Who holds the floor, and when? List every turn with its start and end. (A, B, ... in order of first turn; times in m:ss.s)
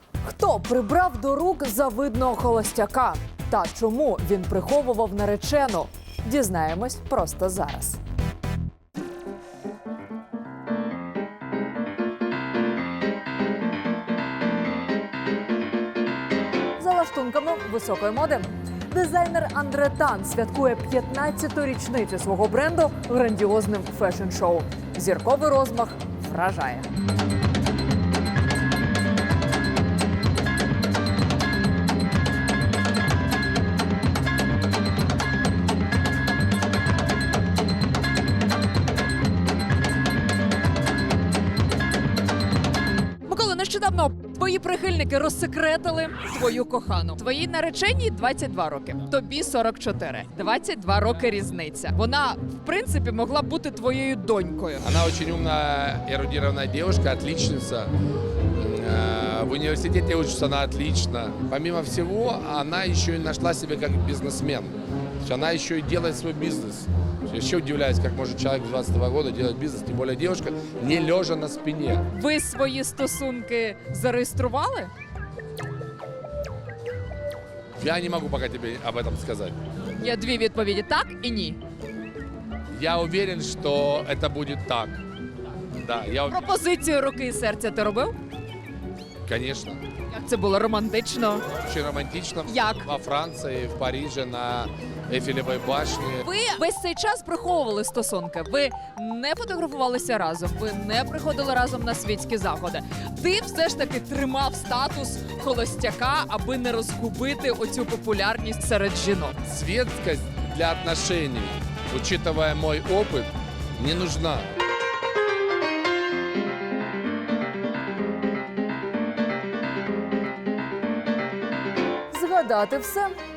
0:00.2-0:08.0 A
0:16.8-0:26.9 A
0:43.2-0:54.8 A
0:54.8-0:57.9 B
0:58.6-1:12.0 B
1:12.1-1:14.9 A
1:17.8-1:19.6 B
1:20.0-1:21.6 A
1:22.7-1:25.0 B
1:25.8-1:26.4 B
1:26.3-1:28.2 A
1:29.3-1:29.8 B
1:30.1-1:31.4 A
1:31.6-1:36.2 B
1:32.5-1:32.9 A
1:36.2-1:49.4 A
1:49.5-1:54.5 B
2:02.1-2:03.2 A